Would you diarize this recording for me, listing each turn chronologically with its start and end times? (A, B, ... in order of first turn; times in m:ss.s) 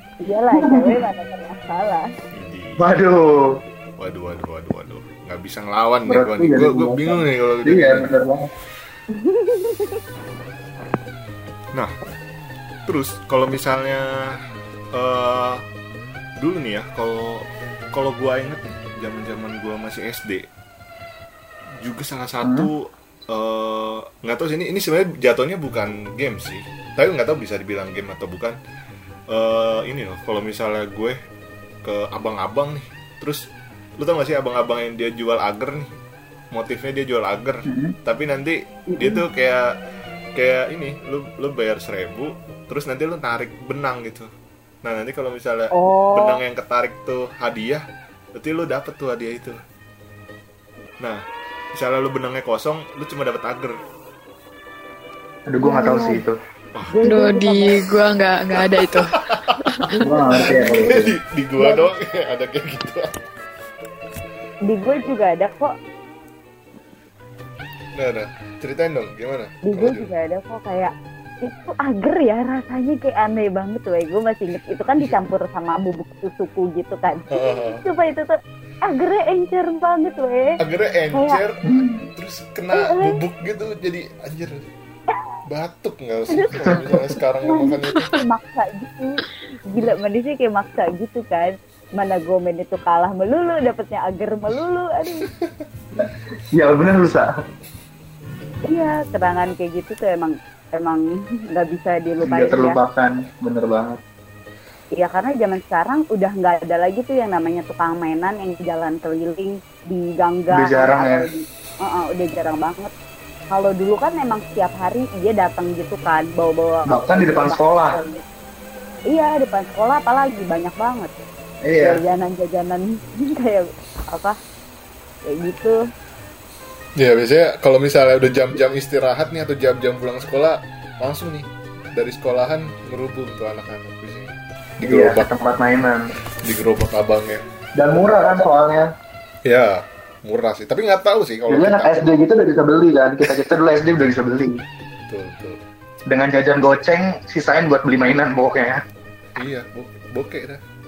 0:00.2-0:02.0 A
0:00.5-0:01.0 B
0:02.3-0:02.9 C
0:02.8-0:03.6 B
0:04.0-0:08.1 C
0:06.1-0:08.5 B
0:09.2-0:10.0 A
0:12.8-0:14.4 C
0:14.9-0:15.6 C
0:16.4-0:20.4 C
0:21.8-0:28.6 C
0:22.4-0:22.7 B
0:29.3-0:31.2 C
0:31.8-0:35.9 C
0:36.5-0:39.7 C
0:37.7-0:37.9 B
0:39.0-0:39.2 A
0:40.4-0:44.3 C
0:44.8-0:47.8 C
0:45.7-0:46.4 A
0:48.4-0:49.6 C
0:51.0-0:53.8 C
0:55.5-0:56.4 B
0:55.6-0:56.2 A
0:56.9-0:57.8 A
0:57.0-0:59.1 D
0:58.9-0:59.4 C
0:59.8-1:01.0 A
1:00.0-1:01.1 B
1:00.4-1:03.1 C
1:01.6-1:01.9 A
1:04.7-1:05.7 A
1:08.0-1:10.1 C
1:09.6-1:18.3 A
1:17.3-1:17.8 C
1:18.8-1:20.6 A
1:20.6-1:21.6 C
1:21.1-1:21.4 A
1:21.7-1:22.0 B
1:22.1-1:24.6 C
1:22.7-1:23.2 A
1:25.5-1:28.2 C
1:26.5-1:26.9 B
1:27.4-1:35.3 A
1:36.0-1:37.3 B
1:38.7-1:42.8 A
1:42.2-1:44.0 B
1:45.0-1:52.9 A
1:50.5-1:51.3 B
1:53.5-1:58.2 A
1:56.9-1:58.0 B
1:59.1-2:01.1 A
2:01.6-2:02.0 B
2:01.8-2:04.4 A
2:05.2-2:05.8 A
2:07.0-2:15.3 C
2:14.8-2:16.1 B
2:16.4-2:17.4 C
2:17.8-2:18.9 B
2:19.4-2:22.0 C
2:21.5-2:24.6 B
2:25.1-2:25.6 C
2:26.1-2:28.8 B
2:29.4-2:30.6 C